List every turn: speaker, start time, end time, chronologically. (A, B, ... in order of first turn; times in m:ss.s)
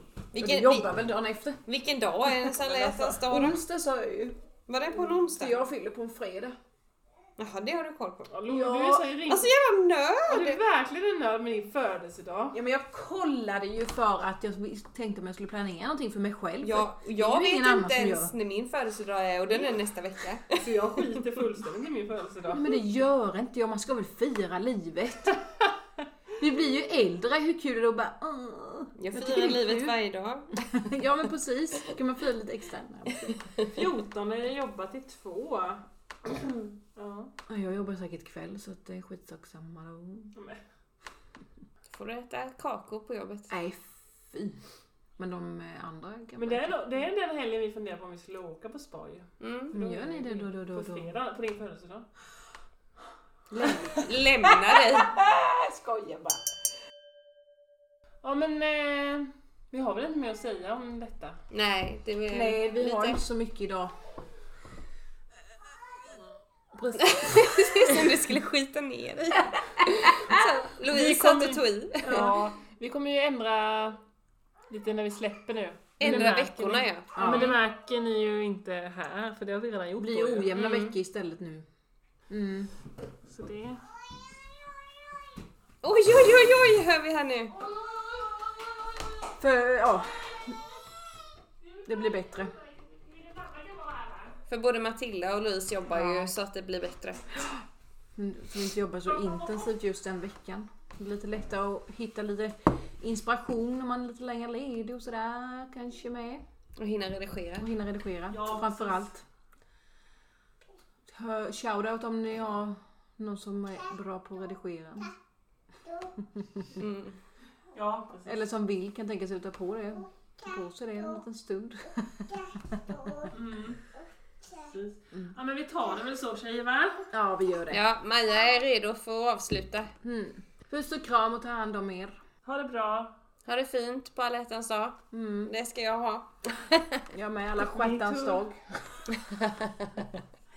0:00.3-0:01.0 A
0:00.4-0:01.6 B
0:01.6-0:03.6 A
0:02.3-0:04.4 B
0:04.7-0:05.6 A
0:05.3-0:06.6 B
0:07.4-0:08.4 A
0:08.3-0:09.5 C
0:08.5-0:09.2 B
0:09.2-0:10.6 A
0:10.2-0:12.6 C
0:12.5-0:18.3 B
0:16.6-0:20.7 A
0:20.5-0:22.7 C
0:22.5-0:25.4 B
0:26.4-0:30.0 B
0:29.0-0:30.6 A
0:30.5-0:33.5 B
0:33.3-0:33.7 A
0:33.7-0:37.3 C
0:37.5-0:40.3 B
0:40.4-0:40.6 C
0:41.9-0:43.5 A
0:43.5-0:44.6 B
0:45.2-0:46.8 B
0:46.4-0:52.1 C
0:49.4-0:49.7 A
0:49.7-0:51.1 B
0:53.5-0:55.2 A
0:53.6-0:56.5 B
0:58.2-1:01.4 C
1:01.5-1:03.2 A
1:02.3-1:03.9 B
1:06.8-1:08.1 B
1:07.0-1:12.3 A
1:09.8-1:10.4 B
1:10.8-1:14.0 C
1:12.1-1:12.4 B
1:14.7-1:20.5 C
1:16.0-1:17.5 A
1:17.1-1:17.6 B
1:20.0-1:21.7 B
1:20.6-1:20.9 A
1:22.3-1:22.7 B
1:23.2-1:23.8 C
1:25.8-1:27.5 A
1:29.3-1:30.6 B
1:31.8-1:32.5 B
1:32.8-1:34.4 C
1:34.5-1:37.3 A
1:35.9-1:36.3 B
1:38.1-1:46.4 B
1:39.1-1:39.6 C
1:46.8-1:47.7 A
1:47.6-1:49.2 B
1:48.3-1:49.1 C
1:51.1-1:55.1 B
1:56.1-1:56.7 B
1:56.8-1:57.2 A
1:57.7-1:58.4 C
1:58.2-2:03.3 B
2:03.3-2:03.8 C
2:04.6-2:07.0 C
2:07.1-2:07.8 B
2:07.7-2:09.9 A
2:10.0-2:12.2 B
2:12.4-2:13.1 C
2:13.4-2:17.0 A
2:15.1-2:15.5 B
2:17.1-2:19.2 B
2:17.6-2:18.4 C
2:19.8-2:20.0 B